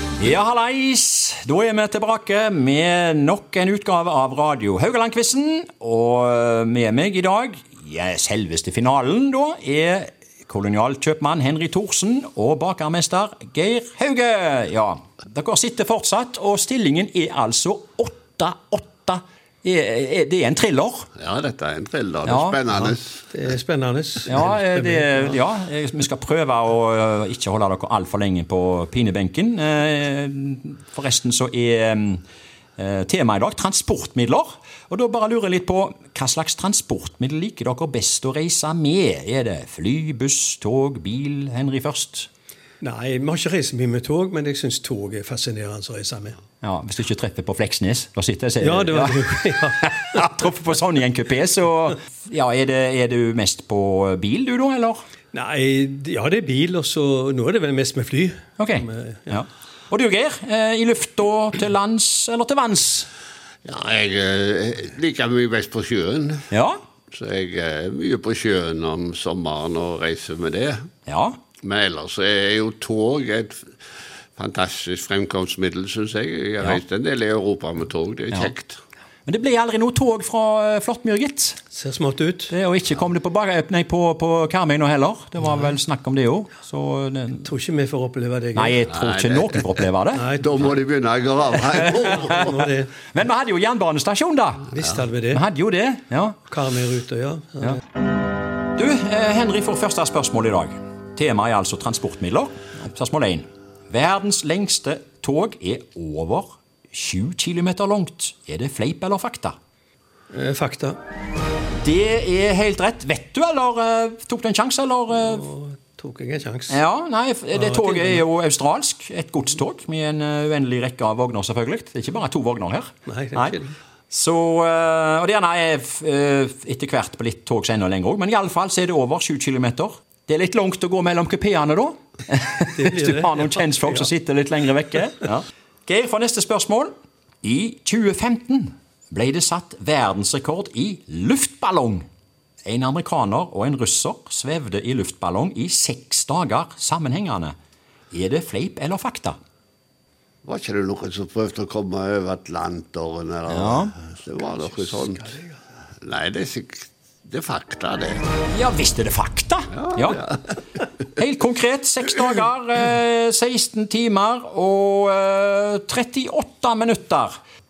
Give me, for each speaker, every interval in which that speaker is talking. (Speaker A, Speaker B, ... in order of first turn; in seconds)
Speaker A: 0.2-21.1, 22.2-22.6, 24.3-32.2, 32.8-42.3, 46.6-55.0, 58.6-63.1, 66.5-66.8, 71.1-71.4, 79.3-81.6, 82.5-87.5, 88.5-90.3, 91.7-96.4, 98.8-109.5, 111.8-115.5, 116.7-123.6, 124.1-136.9, 137.4-142.1, 142.7-147.5, 148.1-149.3, 153.5-153.9, 158.5-160.3, 161.2-167.3
Speaker B: 21.2-23.2, 63.6-66.5, 67.1-70.8, 71.6-73.7, 74.4-78.8, 88.9-89.6, 90.4-92.5, 150.4-155.3, 156.0-158.2, 159.7-160.6
Speaker C: 23.3-25.4, 42.8-46.4, 48.6-50.2, 55.3-59.3, 81.7-82.5, 87.5-88.8, 90.2-90.5, 92.3-92.9, 94.7-95.4, 96.5-97.8, 110.3-111.0, 115.2-116.8, 117.5-118.2, 123.1-123.7, 132.8-134.1, 154.8-155.5